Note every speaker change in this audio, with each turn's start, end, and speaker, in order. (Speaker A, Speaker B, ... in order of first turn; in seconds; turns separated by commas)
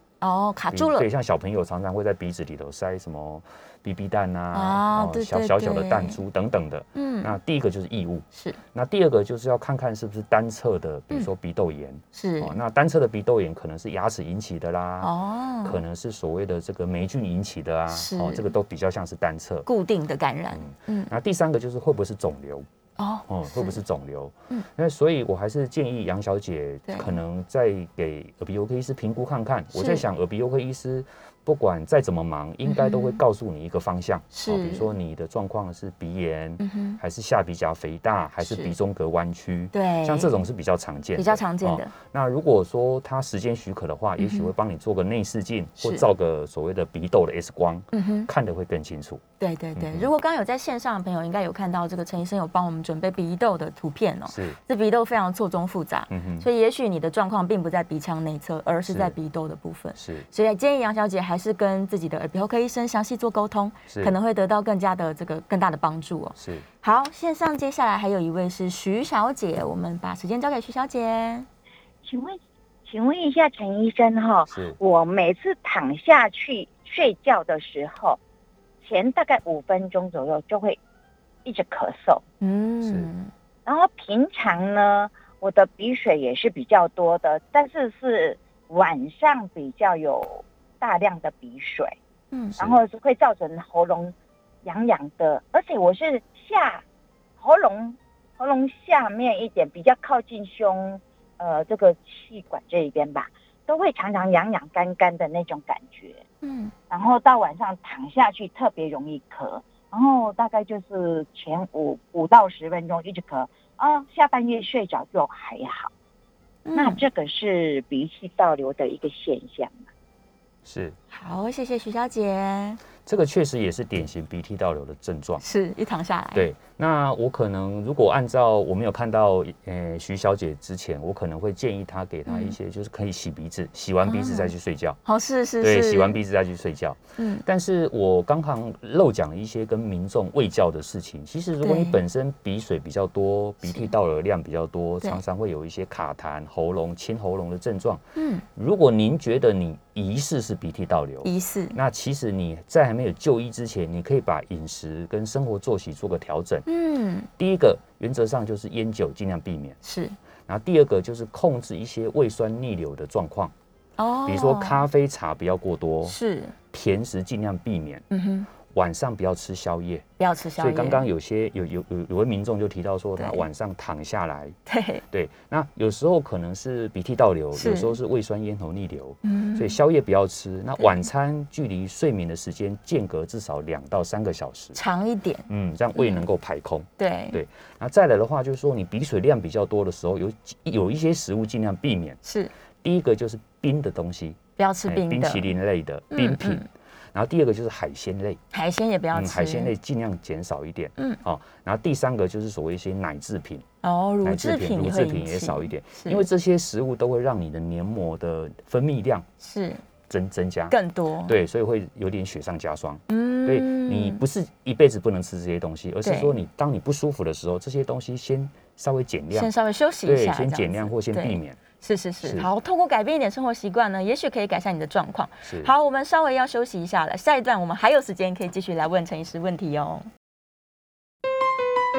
Speaker A: 0.2-1.1, Speaker B: 0.7-15.1, Speaker A: 4.5-6.2, Speaker A: 7.0-7.3, Speaker A: 8.3-8.6, Speaker A: 12.1-12.5, Speaker A: 15.0-15.8, Speaker B: 15.6-19.7, Speaker A: 17.9-18.5, Speaker A: 19.7-21.1, Speaker B: 20.5-22.7, Speaker A: 23.0-23.8, Speaker B: 23.3-49.2, Speaker A: 26.9-27.1, Speaker A: 29.7-30.0, Speaker A: 32.7-33.2, Speaker A: 34.3-34.9, Speaker A: 36.6-37.0, Speaker A: 38.4-38.7, Speaker A: 39.7-40.4, Speaker A: 41.2-41.9, Speaker A: 44.2-44.5, Speaker A: 45.8-46.0, Speaker A: 47.9-48.3, Speaker A: 49.4-71.5, Speaker B: 49.8-50.1, Speaker B: 54.3-54.6, Speaker B: 56.1-56.5, Speaker B: 58.9-59.1, Speaker B: 60.0-60.3, Speaker B: 63.9-64.1, Speaker B: 66.4-66.7, Speaker C: 72.0-78.2, Speaker B: 74.5-74.8, Speaker C: 78.8-80.8, Speaker C: 81.5-82.2, Speaker A: 82.4-83.3, Speaker B: 82.8-83.1, Speaker C: 83.7-92.0, Speaker C: 92.6-96.8, Speaker C: 97.4-106.2, Speaker A: 106.4-106.7, Speaker C: 106.9-115.9, Speaker A: 116.7-117.0, Speaker C: 116.8-119.8, Speaker B: 120.7-121.0, Speaker A: 121.1-122.8, Speaker B: 123.0-125.4, Speaker A: 125.4-126.5, Speaker B: 126.3-135.0, Speaker A: 132.3-132.6, Speaker A: 134.1-134.5, Speaker A: 135.1-136.2, Speaker B: 135.6-148.0, Speaker A: 137.2-137.4, Speaker A: 141.6-142.0, Speaker A: 148.2-148.4, Speaker B: 148.6-156.7, Speaker A: 151.2-151.8, Speaker A: 156.7-157.3, Speaker B: 157.4-159.8, Speaker A: 159.8-160.2, Speaker B: 160.5-163.5, Speaker A: 164.0-164.8, Speaker B: 164.3-166.2, Speaker A: 166.1-166.6, Speaker B: 166.7-168.1, Speaker A: 168.1-168.5, Speaker B: 168.7-170.1, Speaker A: 170.2-171.1, Speaker B: 170.6-174.6, Speaker A: 173.2-173.4, Speaker A: 174.7-175.0, Speaker B: 175.1-184.8, Speaker A: 177.6-178.0, Speaker A: 179.2-179.8, Speaker A: 184.8-186.2, Speaker B: 185.5-192.2, Speaker A: 187.0-187.4, Speaker A: 192.2-192.5, Speaker B: 192.8-198.4, Speaker A: 194.6-195.5, Speaker A: 196.1-196.7, Speaker A: 198.5-199.7, Speaker B: 199.1-203.7, Speaker A: 203.8-206.2, Speaker B: 204.2-209.2, Speaker A: 209.4-209.8, Speaker B: 210.1-219.5, Speaker A: 210.7-211.4, Speaker A: 213.1-214.2, Speaker A: 216.0-216.3, Speaker A: 219.3-230.1, Speaker B: 220.1-221.6, Speaker B: 222.2-222.5, Speaker B: 225.4-225.7